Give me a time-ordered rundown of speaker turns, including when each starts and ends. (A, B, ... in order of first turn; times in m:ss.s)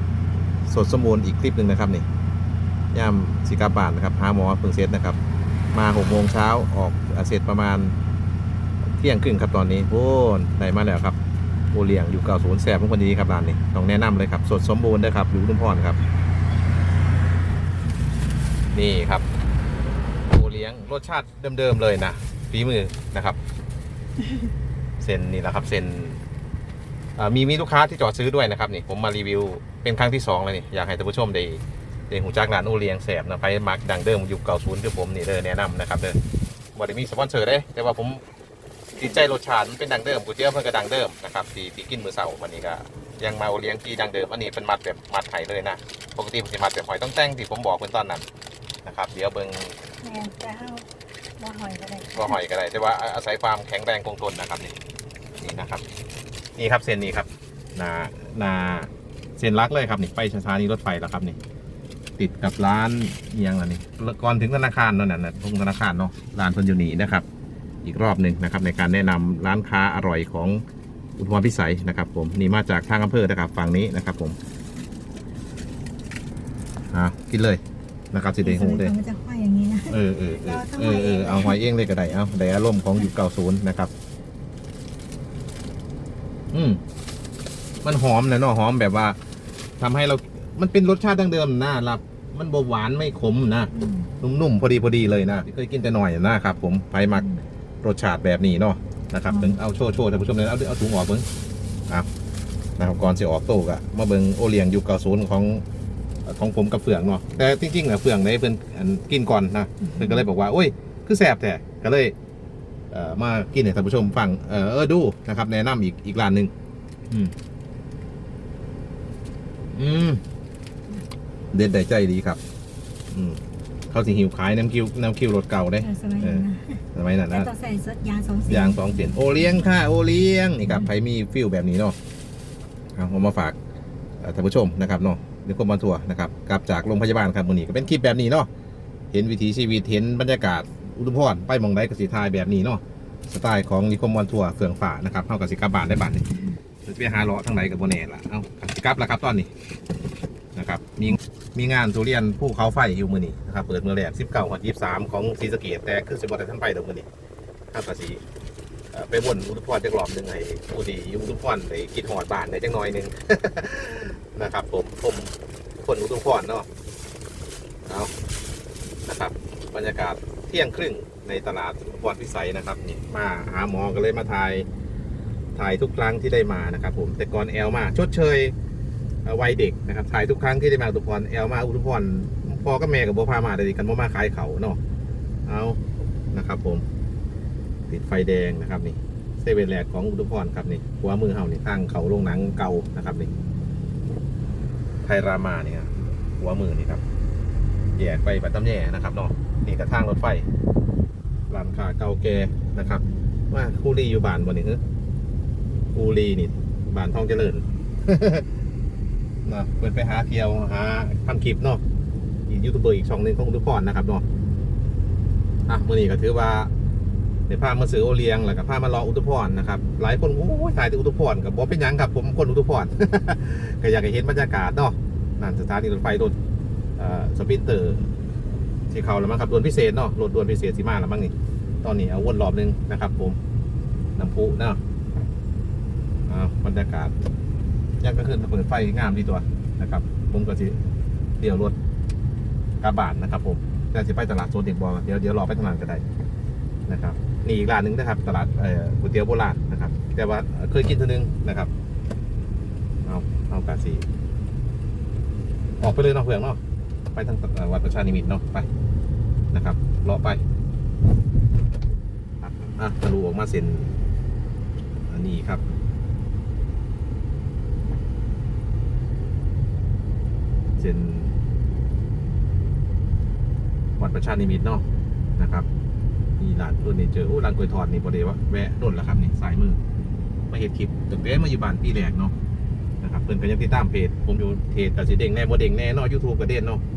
0:00.6-0:02.0 A
0:02.9-0:05.2 A
0:05.7-0:08.0 A
0:08.8-0:11.2 A
0:11.7-0:16.0 A
0:18.7-0:19.2 A
0:20.3-0:23.4 A
0:25.0-0:26.2 A
0:27.2-0:36.2 A
0:36.7-0:38.2 A
0:39.0-0:48.2 A
0:48.8-0:49.8 A
0:50.0-0:52.4 B
0:52.1-0:54.8 A
0:55.4-0:55.8 A
0:56.6-1:01.4 A
1:02.2-1:07.2 A
1:07.8-1:10.6 A
1:11.2-1:14.4 A
1:16.9-1:17.6 A
1:18.1-1:18.9 A
1:18.4-1:21.6 B
1:19.9-1:23.9 A
1:26.5-1:26.8 A
1:27.8-1:29.2 A
1:29.8-1:37.3 A
1:33.7-1:34.1 B
1:37.8-1:41.2 A
1:39.3-1:39.6 B
1:42.8-1:45.6 A
1:46.2-1:52.1 A
1:49.8-1:50.2 B
1:52.9-1:56.5 A
1:59.7-2:00.2 A
2:01.5-2:02.4 A
2:03.1-2:07.5 A
2:05.8-2:09.1 B
2:08.5-2:12.0 A
2:13.0-2:13.6 A
2:14.2-2:18.5 A
2:19.1-2:26.3 A
2:26.8-2:29.5 A
2:30.5-2:37.1 A
2:37.7-2:38.2 A
2:38.9-2:45.3 A
2:45.8-2:46.7 A
2:47.8-2:48.1 A
2:49.0-2:54.7 A
2:55.5-2:58.5 A
2:59.2-3:04.8 A
3:05.4-3:06.8 A
3:07.9-3:13.3 A
3:15.0-3:17.0 A
3:17.9-3:20.5 A
3:21.5-3:24.8 A
3:25.9-3:28.5 A
3:29.4-3:31.8 A
3:32.5-3:34.2 A
3:35.7-3:36.7 A
3:37.5-3:46.3 A
3:47.0-3:48.1 A
3:48.9-3:53.4 A
3:54.2-3:54.8 A
3:56.3-3:57.1 A
3:58.0-4:00.8 A
4:01.4-4:01.7 A
4:02.8-4:06.0 A
4:06.9-4:11.7 A
4:13.0-4:14.0 A
4:15.8-4:16.6 A
4:17.1-4:18.7 A
4:19.5-4:20.4 A
4:22.4-4:24.0 A
4:25.1-4:25.6 A
4:30.8-4:31.3 A
4:34.0-4:34.8 A
4:35.4-4:35.7 A
4:36.4-4:39.8 A
4:40.5-4:42.3 A
4:43.0-4:46.8 A